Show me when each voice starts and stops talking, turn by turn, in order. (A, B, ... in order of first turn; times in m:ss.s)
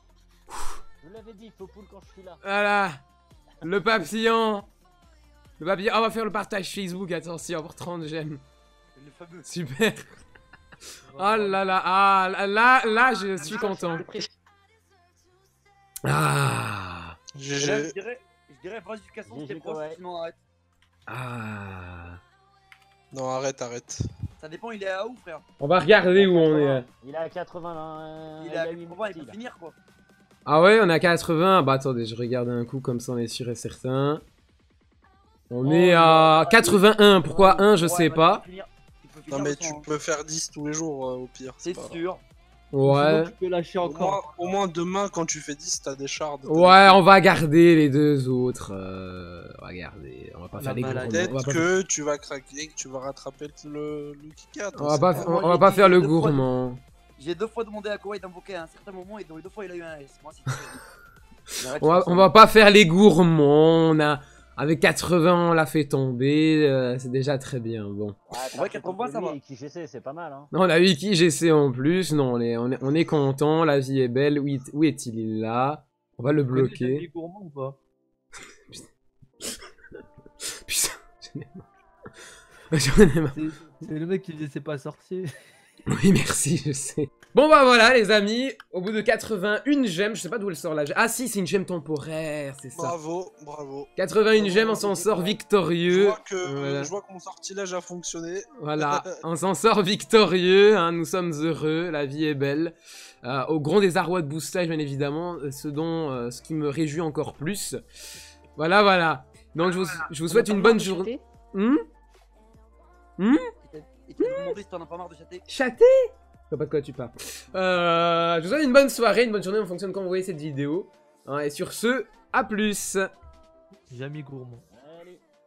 0:01.0-0:02.4 A
0:02.4-0:03.0 B
0:03.6-0:04.6 B
0:05.6-0:08.4 B
0:09.0-0:09.5 C
0:09.5-0:10.2 B
0:11.0-0:11.7 D
0:11.1-0:14.1 B
0:13.5-0:14.1 C
0:13.6-0:14.2 A
0:16.0-0:17.2 B
0:17.4-0:17.9 E
0:17.6-0:20.4 C
0:19.2-0:20.0 A
0:21.1-0:22.2 B
0:23.1-0:24.0 E
0:24.4-0:25.4 C
0:25.6-0:26.9 B
0:26.2-0:29.4 A
0:26.2-0:26.8 C
0:28.4-0:29.8 C
0:30.5-0:34.2 B
0:35.5-0:38.4 B
0:35.6-0:39.9 C
0:39.3-0:42.0 E
0:41.6-0:42.2 C
0:42.7-0:43.3 B
0:42.8-0:44.2 D
0:43.8-0:47.0 E
0:46.5-0:51.7 B
0:50.5-0:51.2 D
0:50.9-0:55.4 E
0:54.8-0:56.8 B
0:55.1-0:56.5 C
0:57.2-1:00.8 C
1:01.6-1:02.3 C
1:01.7-1:08.2 B
1:08.3-1:10.5 A
1:08.4-1:09.4 C
1:10.5-1:17.0 B
1:16.5-1:17.8 D
1:20.6-1:21.7 B
1:22.7-1:23.4 B
1:23.3-1:25.3 D
1:25.9-1:33.0 B
1:32.7-1:33.9 E
1:34.0-1:36.9 B
1:34.8-1:35.3 A
1:35.9-1:39.1 E
1:38.6-1:47.8 B
1:48.6-1:51.8 B
1:53.2-1:53.5 B
1:53.7-1:55.5 C
1:54.2-1:54.6 B
1:55.5-2:03.1 B
2:03.9-2:04.6 D
2:04.7-2:05.2 A